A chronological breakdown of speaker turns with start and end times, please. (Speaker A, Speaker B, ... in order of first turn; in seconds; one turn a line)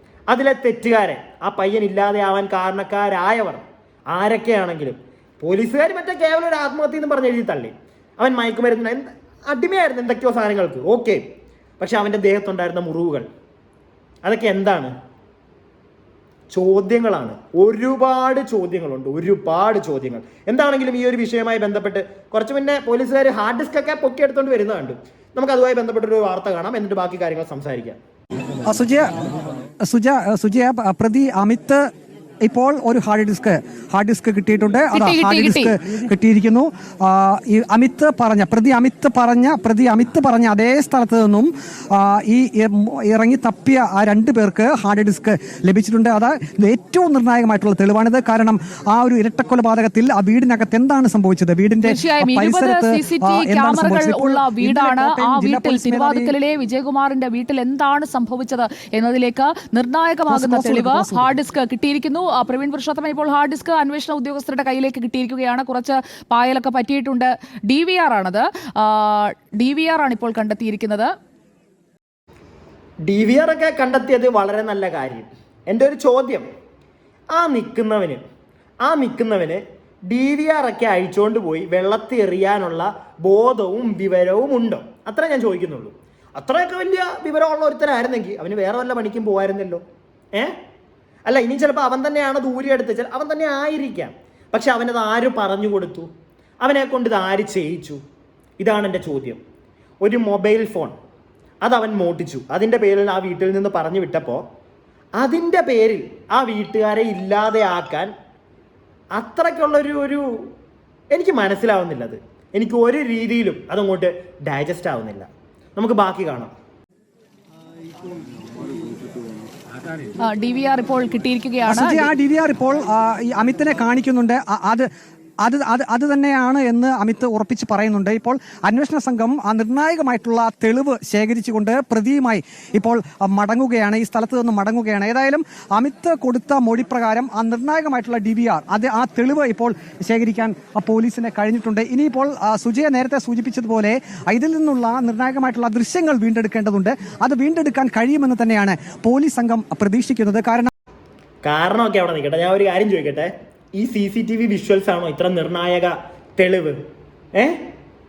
Speaker A: 0.3-11.2
Speaker A: 11.8-13.2
Speaker A: 14.2-14.9
Speaker A: 16.5-28.0
Speaker B: 28.6-29.1
Speaker B: 29.8-31.8
Speaker B: 32.4-56.3
Speaker C: 34.9-35.7
Speaker C: 51.8-71.1
Speaker B: 60.3-61.3
Speaker A: 73.0-76.5
Speaker A: 77.3-78.2
Speaker A: 78.8-89.8
Speaker A: 91.3-96.1
Speaker A: 96.6-98.0
Speaker A: 98.6-99.4
Speaker A: 100.0-100.9
Speaker A: 101.6-104.4
Speaker A: 105.2-108.1
Speaker A: 109.2-110.5
Speaker A: 111.1-116.5
Speaker C: 120.2-122.1
Speaker B: 121.7-124.9
Speaker B: 125.4-150.7
Speaker A: 151.4-156.8